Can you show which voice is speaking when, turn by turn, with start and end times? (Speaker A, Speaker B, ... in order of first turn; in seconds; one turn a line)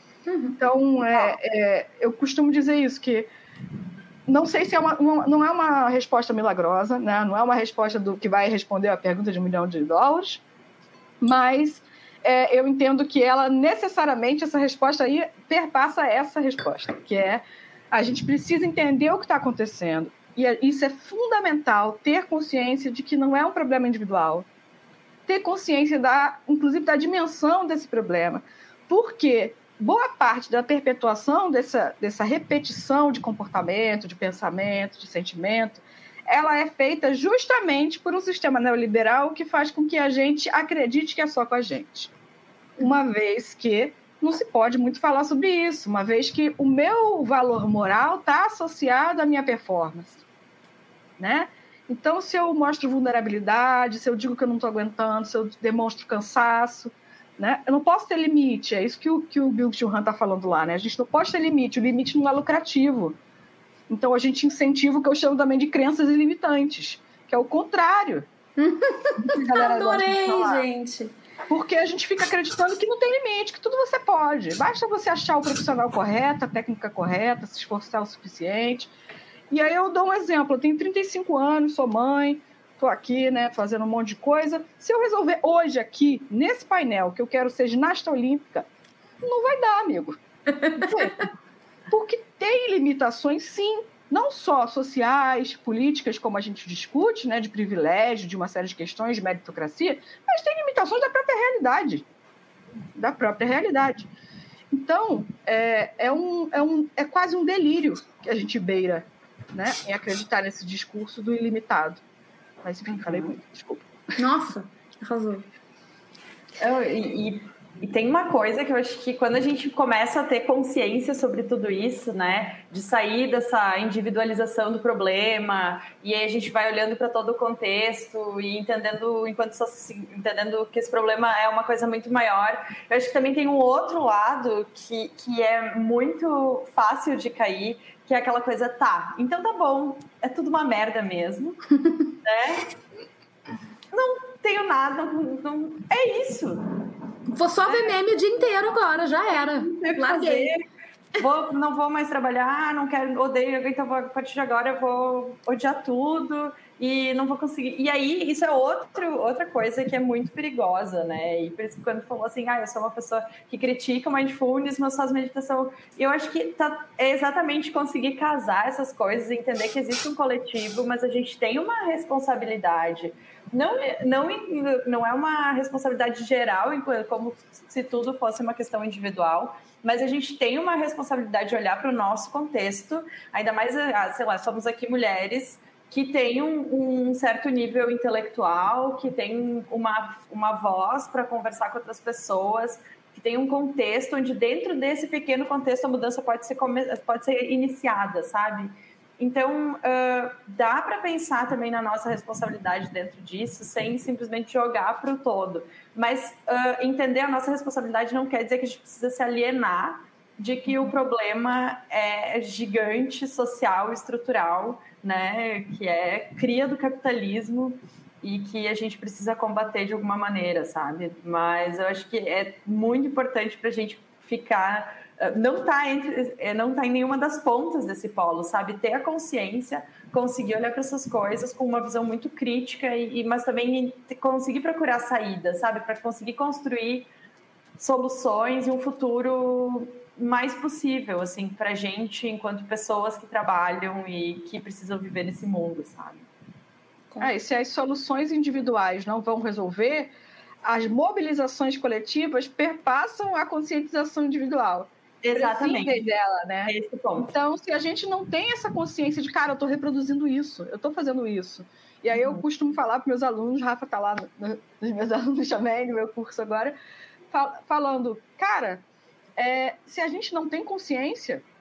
Speaker A: 0.3-0.6
Speaker B: 0.6-3.3
Speaker B: 4.3-10.4
Speaker B: 11.2-24.5
Speaker B: 25.3-42.1
Speaker B: 42.8-50.2
Speaker B: 51.2-63.2
Speaker B: 63.9-68.2
Speaker A: 68.6-71.1
Speaker B: 69.2-70.6
Speaker B: 71.5-78.9
Speaker B: 79.5-88.7
Speaker B: 89.2-90.2
Speaker A: 90.7-91.0
Speaker B: 90.8-91.2
Speaker B: 91.9-102.0
Speaker B: 103.0-104.1
Speaker B: 104.7-112.0
Speaker B: 112.6-113.9
Speaker C: 112.9-113.3
Speaker A: 114.2-115.5
Speaker C: 116.6-142.7
Speaker C: 143.9-146.6
Speaker A: 147.3-150.5
Speaker C: 147.7-147.9
Speaker C: 149.3-150.6
Speaker C: 151.2-237.1
Speaker C: 237.8-246.2
Speaker A: 247.1-247.3
Speaker B: 247.2-250.1
Speaker B: 250.6-266.7
Speaker C: 255.2-256.0
Speaker C: 256.7-257.3
Speaker C: 262.1-262.4
Speaker B: 267.3-268.8
Speaker B: 269.4-271.4